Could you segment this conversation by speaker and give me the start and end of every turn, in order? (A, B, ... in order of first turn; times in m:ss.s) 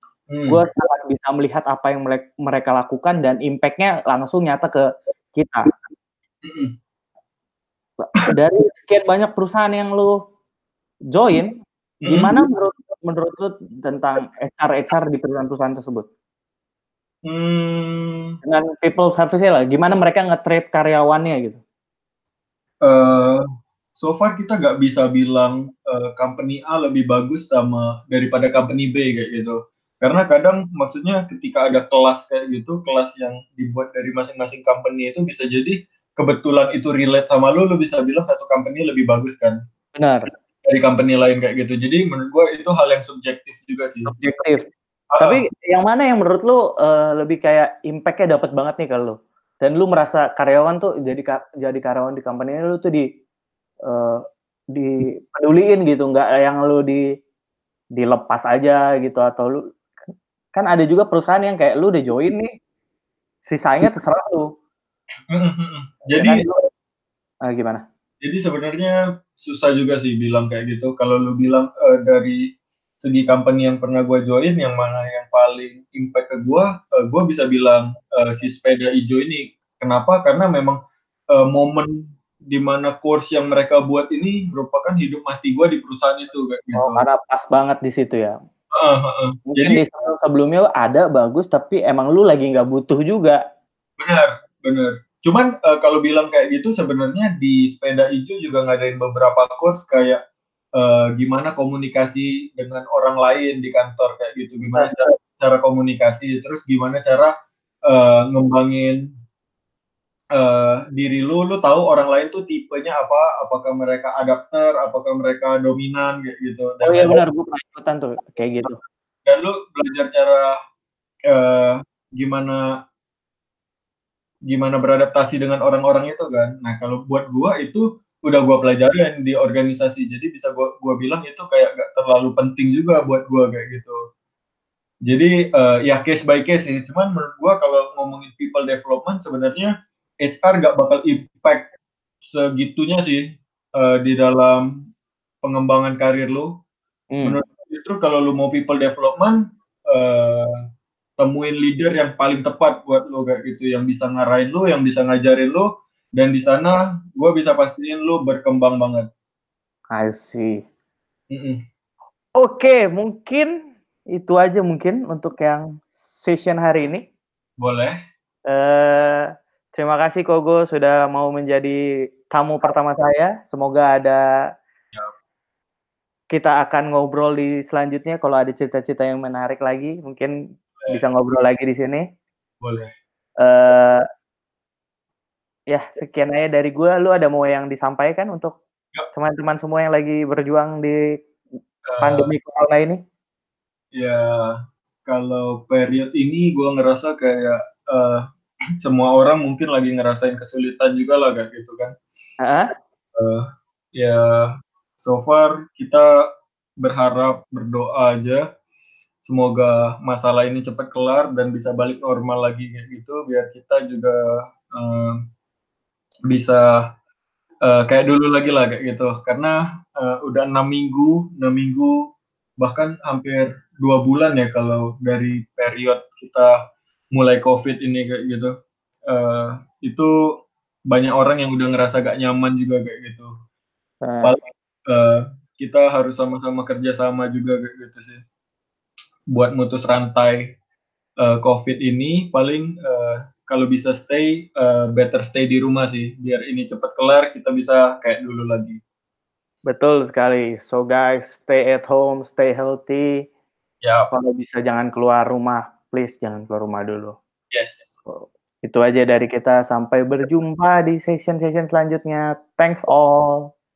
0:00.3-0:00.6 A
0:00.5-0:04.8 B
0:05.4-0:05.7 B
0:06.4-0:06.7 A
0:08.0-0:10.1 B
0:11.1-0:16.0 B
0:12.0-0:12.4 A
0:17.2-0:18.3 A
0:18.4-0:21.6 B
0:22.8-0:23.4 A
0:24.0-0:39.6 A
0:40.0-0:40.3 B
0:40.6-0:44.1 A
0:44.1-0:44.6 B
0:45.1-0:45.4 A
0:45.2-0:53.0 B
0:53.9-0:57.0 B
0:58.0-0:59.6 B
1:00.5-1:02.5 B
1:03.5-1:04.5 B
1:05.3-1:06.4 A
1:06.1-1:06.6 B
1:07.5-1:07.8 B
1:08.2-1:12.5 A
1:13.0-1:20.8 A
1:21.3-1:22.0 A
1:22.5-1:27.0 A
1:26.7-1:28.3 B
1:28.7-1:29.8 A
1:29.5-1:33.4 B
1:34.0-1:40.2 A
1:40.8-1:47.3 A
1:47.9-1:49.0 A
1:50.3-1:57.2 A
1:56.8-1:58.7 B
1:59.2-2:00.5 A
2:01.3-2:02.6 A
2:04.5-2:14.0 A
2:15.0-2:21.7 A
2:22.2-2:23.2 A
2:23.8-2:24.7 A
2:25.4-2:26.5 A
2:27.2-2:30.5 A
2:31.2-2:39.1 A
2:39.9-2:40.6 B
2:41.3-2:41.6 A
2:42.4-2:43.5 B
2:44.2-2:47.0 B
2:47.6-2:47.9 A
2:48.5-2:49.2 B
2:49.8-2:51.8 B
2:52.3-2:54.2 B
2:56.3-3:00.3 B
3:00.9-3:02.0 B
3:02.6-3:02.9 A
3:03.4-3:04.0 B
3:05.7-3:08.5 B
3:09.1-3:11.0 B
3:11.9-3:12.3 A
3:12.0-3:13.0 B
3:13.9-3:18.2 A
3:18.8-3:21.9 A
3:22.4-3:22.7 B
3:23.1-3:26.2 A
3:26.8-3:28.4 A
3:29.2-3:35.2 A
3:36.3-3:36.8 A
3:37.6-3:42.1 A
3:42.6-3:46.5 A
3:47.1-3:48.5 A
3:49.1-3:50.1 A
3:50.9-3:53.3 A
3:54.0-3:54.4 B
3:54.2-3:58.2 A
3:59.3-4:00.4 A
4:01.2-4:08.8 A
4:09.7-4:13.1 B
4:13.8-4:14.1 A
4:14.1-4:17.2 B
4:17.5-4:18.0 A
4:18.1-4:23.5 B